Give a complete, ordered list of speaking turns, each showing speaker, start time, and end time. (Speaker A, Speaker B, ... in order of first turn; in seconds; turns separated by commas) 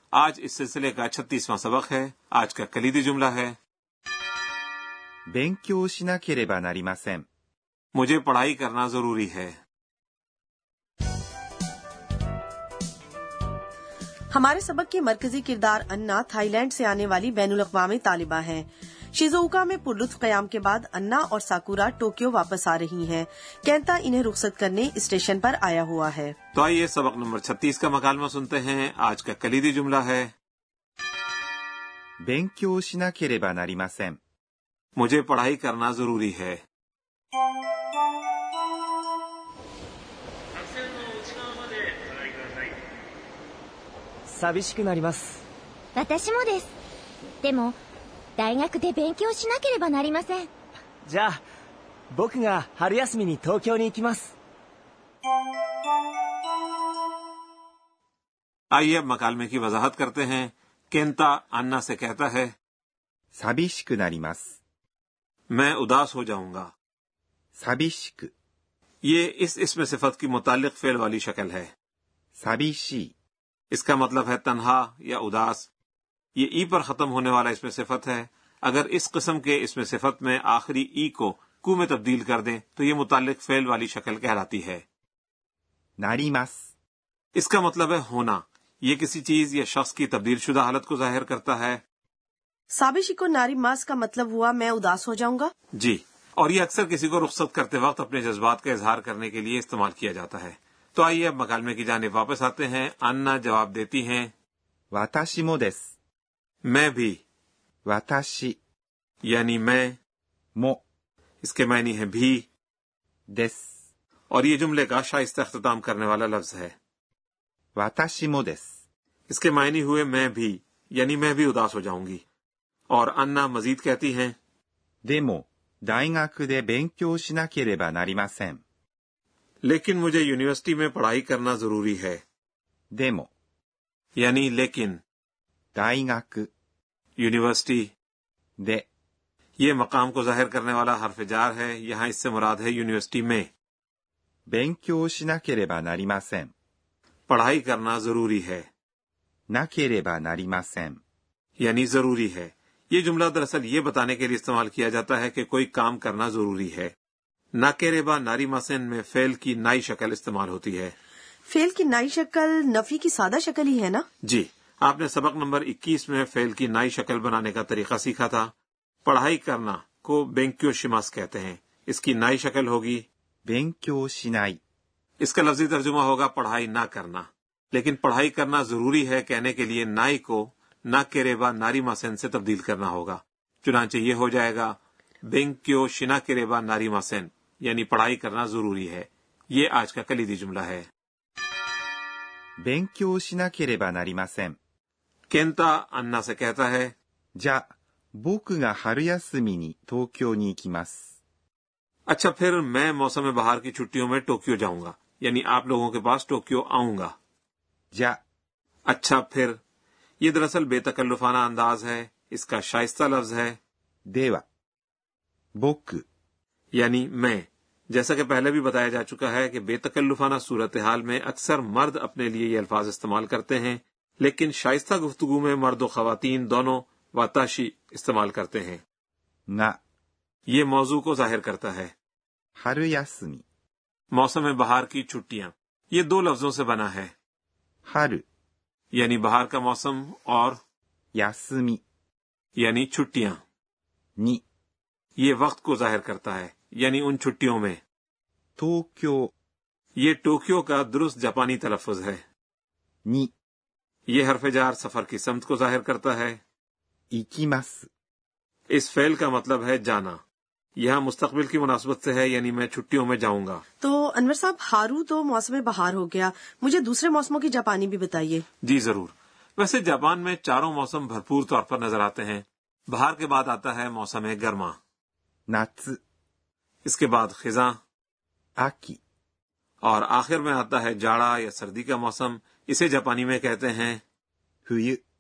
Speaker A: 0.1-3.6, Speaker B: 5.3-7.2, Speaker A: 8.0-9.6, Speaker C: 14.3-26.4, Speaker A: 26.6-30.3, Speaker B: 32.2-34.2, Speaker A: 35.0-36.6, Speaker D: 44.3-45.4, Speaker E: 47.4-47.7, Speaker E: 48.4-50.4, Speaker D: 51.1-51.3, Speaker D: 52.1-54.3, Speaker A: 58.7-62.5, Speaker B: 63.4-64.5, Speaker A: 65.5-66.7, Speaker B: 67.6-68.3, Speaker A: 69.0-71.7, Speaker B: 72.4-73.1, Speaker A: 73.7-75.7, Speaker A: 76.4-84.8, Speaker B: 86.0-86.6, Speaker A: 87.4-91.8, Speaker C: 92.7-95.5, Speaker A: 95.8-104.3, Speaker B: 104.9-105.9, Speaker A: 106.7-107.2, Speaker B: 107.9-108.6, Speaker A: 109.2-110.0, Speaker A: 111.4-112.5, Speaker B: 113.3-113.7, Speaker A: 114.3-116.7, Speaker B: 117.8-118.7, Speaker A: 119.3-122.2, Speaker A: 122.9-124.3, Speaker B: 125.1-128.6, Speaker A: 129.7-132.2, Speaker B: 132.9-133.3, Speaker A: 134.2-135.0, Speaker B: 135.8-136.5, Speaker A: 137.2-137.9, Speaker B: 138.6-138.8, Speaker A: 139.6-143.5, Speaker B: 144.5-146.5, Speaker A: 147.3-148.7, Speaker B: 149.5-151.0, Speaker A: 151.6-156.9, Speaker A: 157.6-160.9, Speaker C: 161.5-164.1, Speaker A: 164.2-168.5, Speaker A: 169.1-173.1, Speaker B: 173.5-174.6, Speaker A: 175.2-190.9, Speaker B: 192.6-194.6, Speaker A: 195.3-196.9, Speaker B: 197.4-197.7, Speaker B: 198.2-201.0, Speaker A: 202.1-207.1, Speaker B: 207.9-208.2, Speaker A: 208.9-209.6, Speaker A: 210.2-213.6, Speaker B: 214.1-214.4, Speaker B: 215.6-216.0, Speaker A: 216.7-228.8, Speaker B: 229.5-229.8, Speaker A: 230.5-231.9, Speaker B: 232.6-233.4, Speaker A: 234.1-237.1, Speaker B: 237.9-238.2, Speaker A: 238.9-240.6, Speaker B: 241.2-241.8, Speaker A: 242.6-243.4, Speaker A: 245.2-247.8, Speaker B: 248.6-249.3, Speaker A: 250.0-252.2, Speaker B: 253.1-253.3, Speaker A: 254.1-256.4, Speaker B: 257.1-257.9, Speaker A: 258.7-260.2, Speaker A: 260.8-263.6, Speaker C: 263.8-268.4, Speaker A: 268.6-274.8, Speaker B: 275.5-276.0, Speaker A: 276.9-277.8, Speaker B: 278.6-279.0, Speaker A: 279.8-284.0, Speaker B: 284.7-285.0